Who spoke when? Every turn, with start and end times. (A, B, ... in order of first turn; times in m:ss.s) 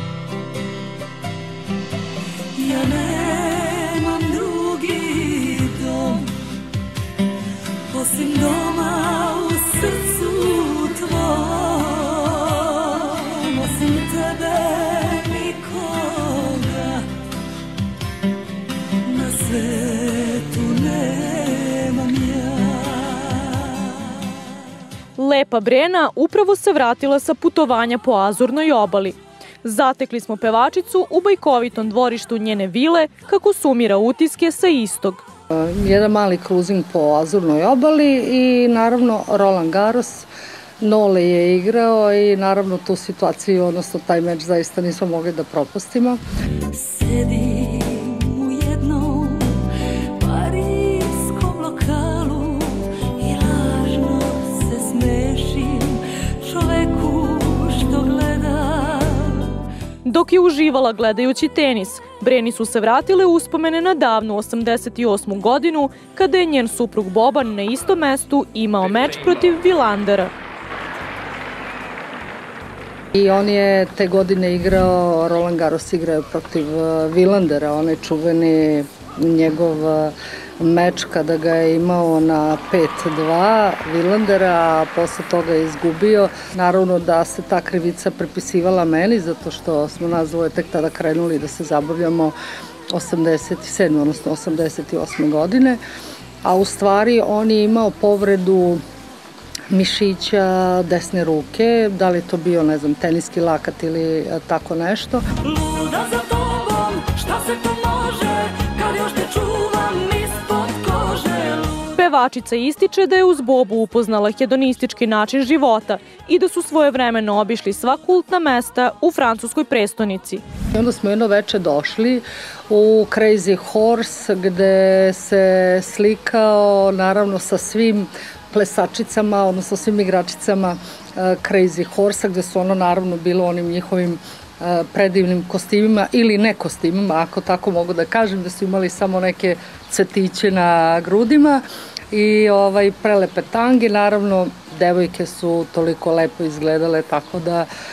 0:02.6-0:06.3 A
0:07.9-0:17.1 A
0:19.0-0:23.6 A
0:25.2-0:35.2 B
0:35.5-0:40.3 C
0:40.8-0:46.2 C
0:46.7-0:59.6 A
1:00.0-1:10.3 B
1:13.2-1:32.4 C
1:32.9-1:35.8 C
1:36.4-1:38.8 C
1:39.7-1:45.2 C
1:45.4-1:51.9 A
1:52.0-2:00.4 B
2:00.7-2:27.7 C